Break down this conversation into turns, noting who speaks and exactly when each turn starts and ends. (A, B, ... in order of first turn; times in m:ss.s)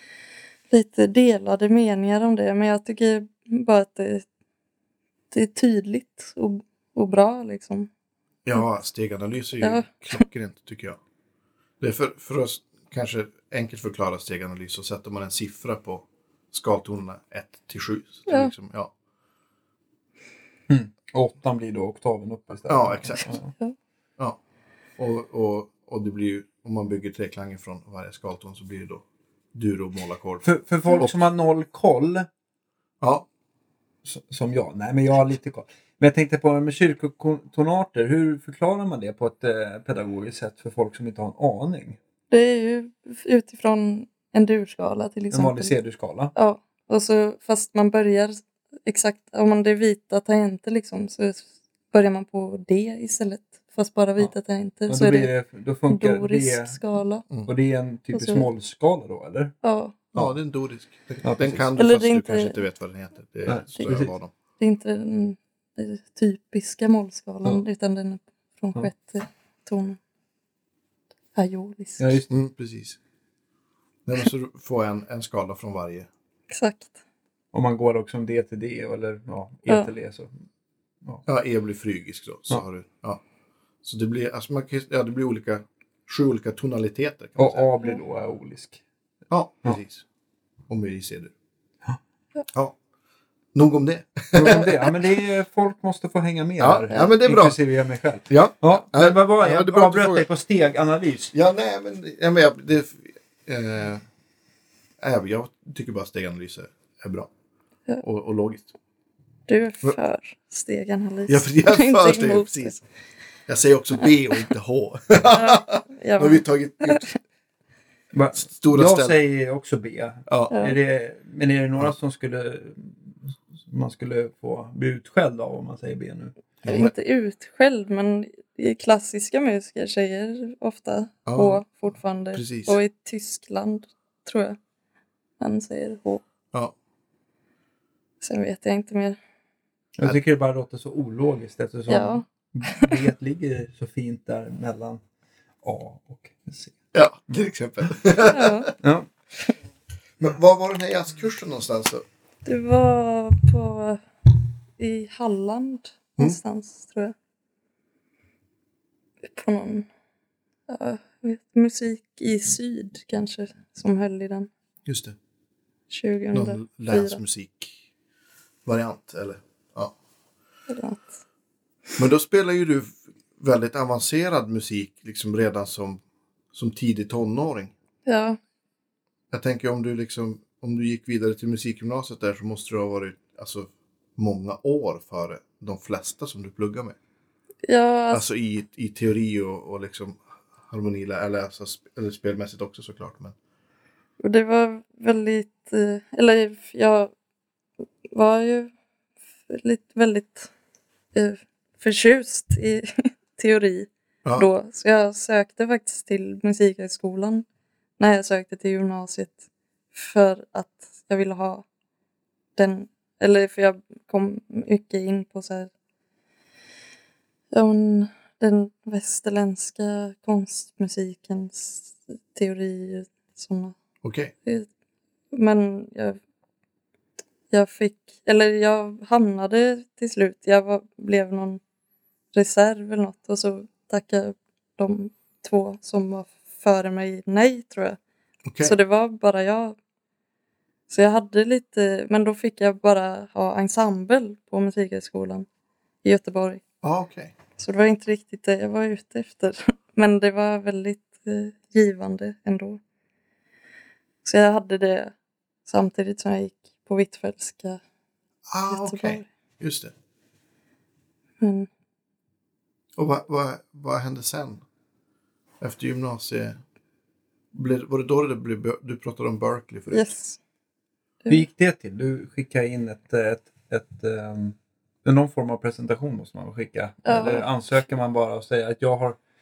0:00.7-0:04.2 A
0:05.3-0:07.9 A
0:08.4-0:11.0 B
0:09.6-0:10.2 A
0:11.8-0:18.9 B
0:18.3-0:18.5 A
0:20.7-0:23.5 C
0:22.7-0:23.2 B
0:25.0-0:29.0 B
0:29.5-0:31.1 B
0:30.4-0:32.3 C
0:33.0-0:33.3 B
0:34.0-0:42.0 C
0:42.3-0:45.7 A
0:45.3-0:46.3 C
0:46.3-0:55.3 A
0:54.9-0:56.8 C
0:55.9-0:57.3 A
0:57.4-0:59.5 C
0:58.1-0:58.5 A
0:59.6-1:00.0 A
1:00.1-1:04.3 B
1:01.2-1:01.6 C
1:01.8-1:02.6 A
1:03.4-1:04.1 C
1:04.6-1:10.0 A
1:11.3-1:12.2 A
1:12.0-1:12.3 C
1:12.3-1:13.0 B
1:14.0-1:16.1 B
1:16.5-1:16.9 A
1:17.5-1:20.3 C
1:21.2-1:23.2 B
1:23.8-1:27.7 B
1:27.4-1:28.8 C
1:29.3-1:30.0 B
1:30.7-1:31.3 B
1:33.5-1:34.9 B
1:34.3-1:41.3 C
1:36.6-1:37.6 B
1:38.3-1:40.2 B
1:41.3-1:44.0 B
1:45.0-1:47.3 B
1:48.0-1:48.7 B
1:49.5-1:52.8 A
1:51.3-1:52.8 B
1:53.5-1:57.0 B
1:54.0-1:54.4 A
1:55.3-1:57.2 A
1:58.1-2:06.4 C
1:58.4-1:59.2 B
2:00.3-2:00.5 B
2:00.5-2:00.8 A
2:06.6-2:06.9 B
2:06.6-2:14.6 A
2:11.2-2:11.6 B
2:12.3-2:12.8 B
2:15.4-2:16.2 A
2:18.2-2:19.2 A
2:20.0-2:25.0 C
2:21.9-2:22.9 A
2:25.6-2:26.8 C
2:26.9-2:28.7 B
2:28.2-2:28.7 A
2:28.8-2:29.1 C
2:30.2-2:32.0 B
2:32.4-2:34.0 A
2:34.8-2:37.1 A
2:39.3-2:39.9 A
2:40.7-2:44.5 A
2:44.8-2:45.2 B
2:45.9-2:47.2 A
2:46.3-2:47.8 B
2:48.6-2:49.9 B
2:50.7-2:51.2 A
2:52.0-2:56.0 B
2:56.5-2:57.7 B
2:58.0-2:58.4 A
2:59.3-3:07.0 B
3:07.6-3:08.3 A
3:08.1-3:13.3 B
3:14.2-3:17.1 A
3:18.1-3:18.7 A
3:19.5-3:20.5 A
3:21.1-3:27.4 A
3:28.0-3:31.6 A
3:32.6-3:35.7 A
3:37.5-3:43.8 A
3:44.0-3:44.3 B
3:45.3-3:46.2 A
3:47.5-3:51.6 A
3:52.3-3:58.0 A
3:58.4-3:58.7 B
3:58.6-3:59.8 A
4:00.9-4:05.5 A
4:06.0-4:06.6 A
4:06.8-4:07.3 B
4:07.6-4:12.8 A
4:14.2-4:15.1 A
4:15.6-4:17.8 A
4:18.5-4:19.9 B
4:18.7-4:19.3 A
4:21.4-4:21.7 A
4:23.0-4:24.6 B
4:25.6-4:26.6 B
4:27.5-4:30.1 B
4:29.9-4:30.4 A
4:31.3-4:39.2 C
4:37.0-4:37.4 A